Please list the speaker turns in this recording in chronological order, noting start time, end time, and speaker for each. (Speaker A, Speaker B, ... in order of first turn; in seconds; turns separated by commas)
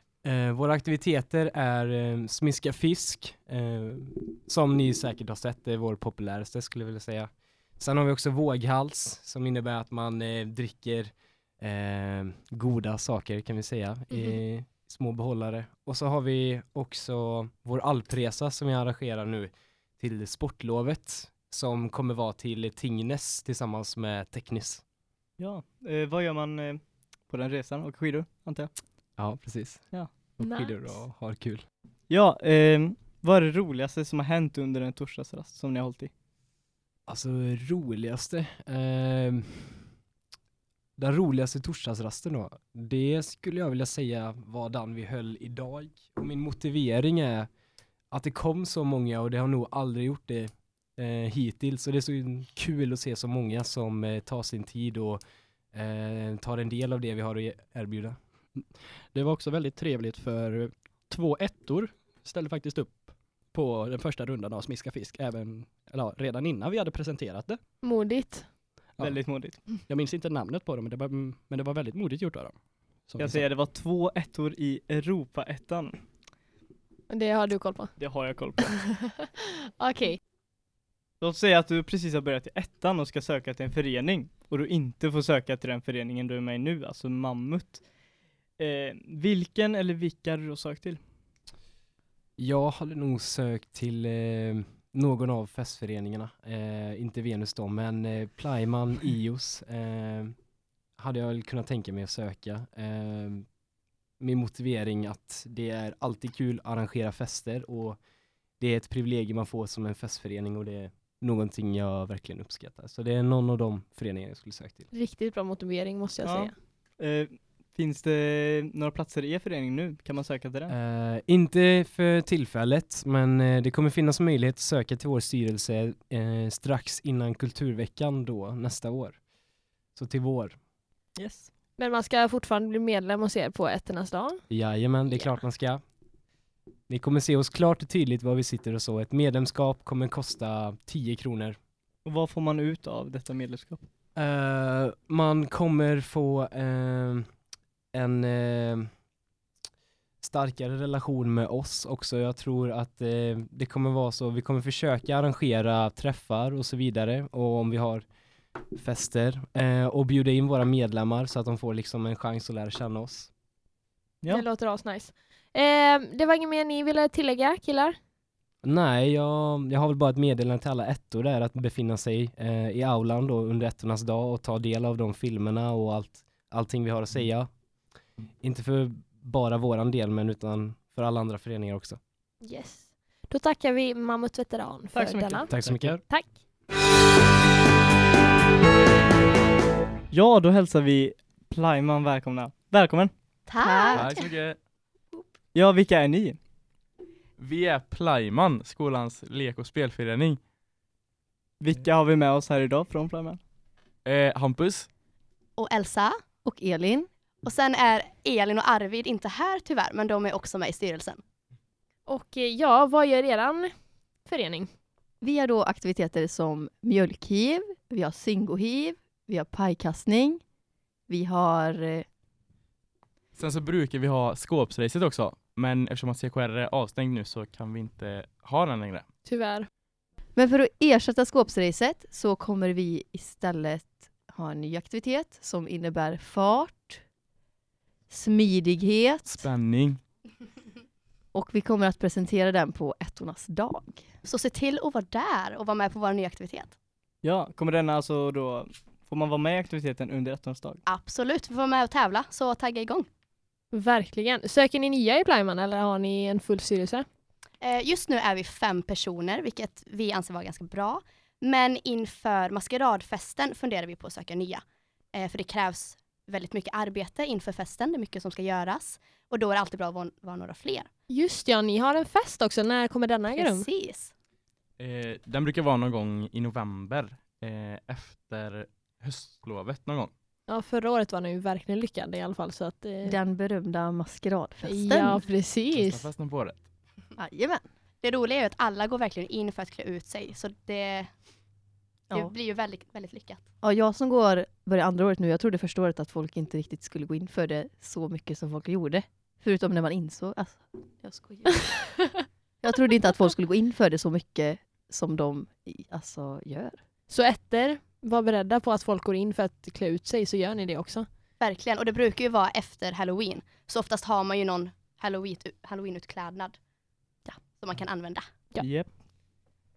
Speaker A: 0.2-24.8, Speaker B: 14.1-14.4, Speaker C: 25.4-28.7, Speaker A: 29.2-31.6, Speaker B: 30.4-31.0, Speaker C: 32.1-36.1, Speaker A: 37.1-39.9, Speaker A: 41.0-47.5, Speaker A: 48.1-55.2, Speaker A: 55.7-58.2, Speaker D: 58.6-67.6, Speaker B: 67.8-68.5, Speaker D: 69.0-69.2, Speaker C: 69.0-69.7, Speaker D: 69.8-73.5, Speaker C: 73.2-76.0, Speaker B: 77.1-77.9, Speaker C: 78.0-78.8, Speaker B: 78.9-80.2, Speaker C: 81.2-87.8, Speaker C: 88.6-91.0, Speaker A: 92.4-100.3, Speaker A: 101.0-103.5, Speaker A: 104.2-108.0, Speaker A: 108.6-114.9, Speaker B: 114.9-116.5, Speaker C: 116.2-120.7, Speaker A: 120.7-129.2, Speaker A: 129.9-130.6, Speaker C: 131.2-131.5, Speaker B: 131.8-134.4, Speaker A: 134.5-135.8, Speaker B: 135.1-135.4, Speaker A: 136.9-141.6, Speaker C: 142.1-143.8, Speaker A: 144.2-147.3, Speaker A: 147.9-148.9, Speaker A: 150.2-158.1, Speaker A: 158.8-163.3, Speaker B: 164.3-168.0, Speaker A: 168.6-177.5, Speaker A: 178.4-182.0, Speaker B: 182.4-185.5, Speaker C: 184.9-185.8, Speaker A: 185.6-186.0, Speaker D: 185.6-186.0, Speaker B: 186.1-186.3, Speaker C: 190.1-193.1, Speaker E: 193.5-194.3, Speaker F: 193.6-194.0, Speaker G: 193.9-194.6, Speaker C: 195.5-196.4, Speaker G: 197.4-200.4, Speaker C: 201.6-203.4, Speaker G: 204.1-204.9, Speaker F: 205.6-206.2, Speaker E: 206.4-207.1, Speaker F: 207.4-211.2, Speaker B: 212.1-213.7, Speaker B: 214.2-214.7, Speaker E: 215.2-220.4, Speaker E: 221.1-222.1, Speaker G: 223.4-229.1, Speaker B: 229.2-229.7, Speaker E: 230.4-237.0, Speaker E: 238.1-239.4, Speaker G: 239.3-240.0, Speaker E: 241.3-244.1, Speaker F: 244.2-246.8, Speaker C: 247.2-250.8, Speaker F: 250.9-253.1, Speaker B: 253.7-257.1, Speaker F: 257.6-270.9, Speaker B: 271.1-273.7, Speaker F: 273.3-274.1, Speaker G: 274.8-280.1, Speaker B: 280.5-283.2, Speaker E: 283.0-285.2, Speaker B: 284.6-286.1, Speaker G: 285.7-286.6, Speaker E: 287.2-287.6, Speaker F: 288.0-291.1, Speaker F: 292.1-293.4, Speaker E: 293.6-302.0, Speaker E: 302.6-306.8, Speaker B: 307.1-311.1, Speaker F: 311.4-316.6, Speaker F: 317.4-318.3, Speaker C: 318.6-318.9